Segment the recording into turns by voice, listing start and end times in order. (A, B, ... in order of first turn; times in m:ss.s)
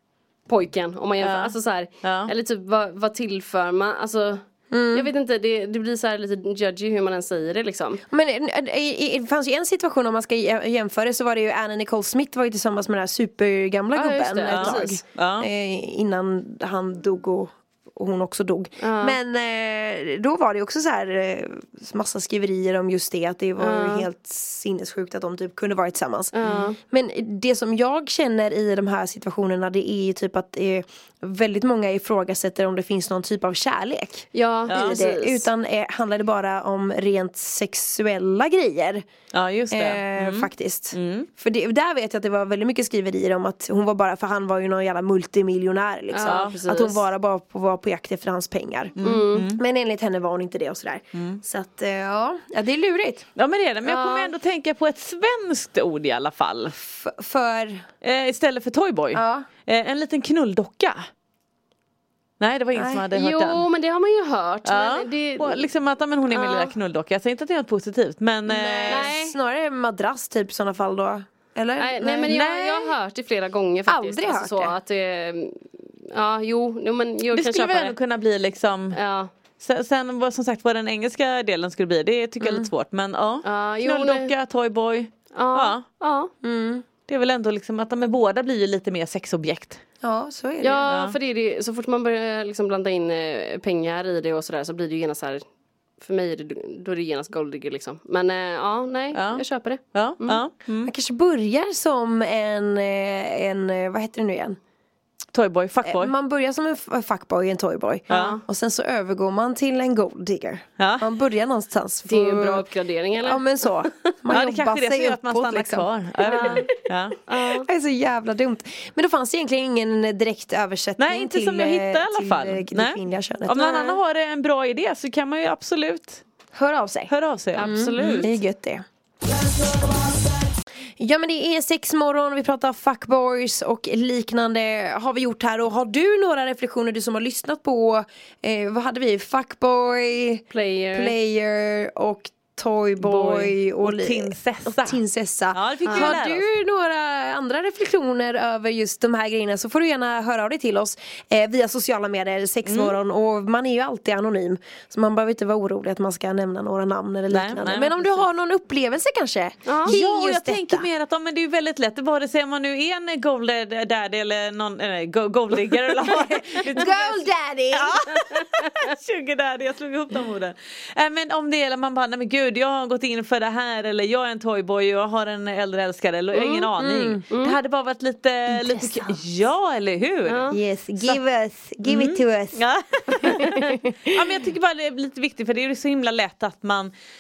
0:00.5-0:04.4 A
0:01.2-0:02.3 B
0:04.7-0:05.1 C
0:04.9-0:08.0 A
0:08.1-0:39.0 C
0:13.9-0:15.0 A
0:14.5-0:15.5 B
0:18.8-0:19.2 A
0:23.6-0:24.1 A
0:26.3-0:26.8 A
0:34.3-0:35.5 A
0:34.7-0:35.0 B
0:39.3-0:41.3 B
0:39.7-0:53.3 C
0:46.1-0:47.0 A
0:46.2-0:46.6 B
0:49.0-0:49.6 B
0:49.0-0:49.5 A
0:51.2-0:51.4 B
0:53.4-0:56.8 B
0:53.9-0:54.3 A
0:56.7-0:57.9 C
0:58.0-1:01.0 B
0:59.1-0:59.5 C
1:02.4-1:03.7 B
1:02.7-1:03.0 C
1:03.1-1:05.7 A
1:04.6-1:09.2 B
1:06.3-1:06.7 A
1:08.5-1:12.9 C
1:08.9-1:09.4 A
1:11.8-1:18.0 A
1:12.3-1:12.8 B
1:13.9-1:14.8 C
1:17.3-1:19.0 B
1:18.9-1:19.3 A
1:19.6-1:25.8 B
1:22.4-1:22.7 C
1:23.4-1:24.3 A
1:25.3-1:26.3 A
1:26.4-1:26.8 C
1:27.1-1:29.8 B
1:30.0-1:30.9 C
1:30.6-1:35.4 A
1:30.9-1:31.2 B
1:36.0-1:40.4 A
1:39.1-1:40.9 B
1:40.8-1:44.6 C
1:45.3-1:46.1 B
1:45.8-1:52.7 C
1:48.1-1:48.4 A
1:48.1-1:48.4 B
1:50.8-1:51.1 B
1:52.1-1:53.9 A
1:53.2-1:56.6 C
1:54.3-1:57.2 B
1:56.3-1:56.6 A
1:57.3-1:57.7 A
1:57.4-2:04.0 C
2:01.0-2:06.2 B
2:06.5-2:08.8 C
2:07.1-2:08.3 B
2:07.6-2:08.4 A
2:11.0-2:40.9 C
2:20.5-2:21.2 A
2:23.0-2:26.5 B
2:25.9-2:26.2 A
2:32.7-2:33.0 B
2:37.3-2:38.3 B
2:39.7-2:40.0 A
2:39.9-3:01.2 B
2:46.7-2:48.0 C
2:48.4-2:48.7 A
2:56.3-2:57.2 C
2:57.3-2:57.6 A
2:58.5-2:59.2 C
3:00.3-3:00.6 A
3:00.5-3:03.8 C
3:01.9-3:06.9 B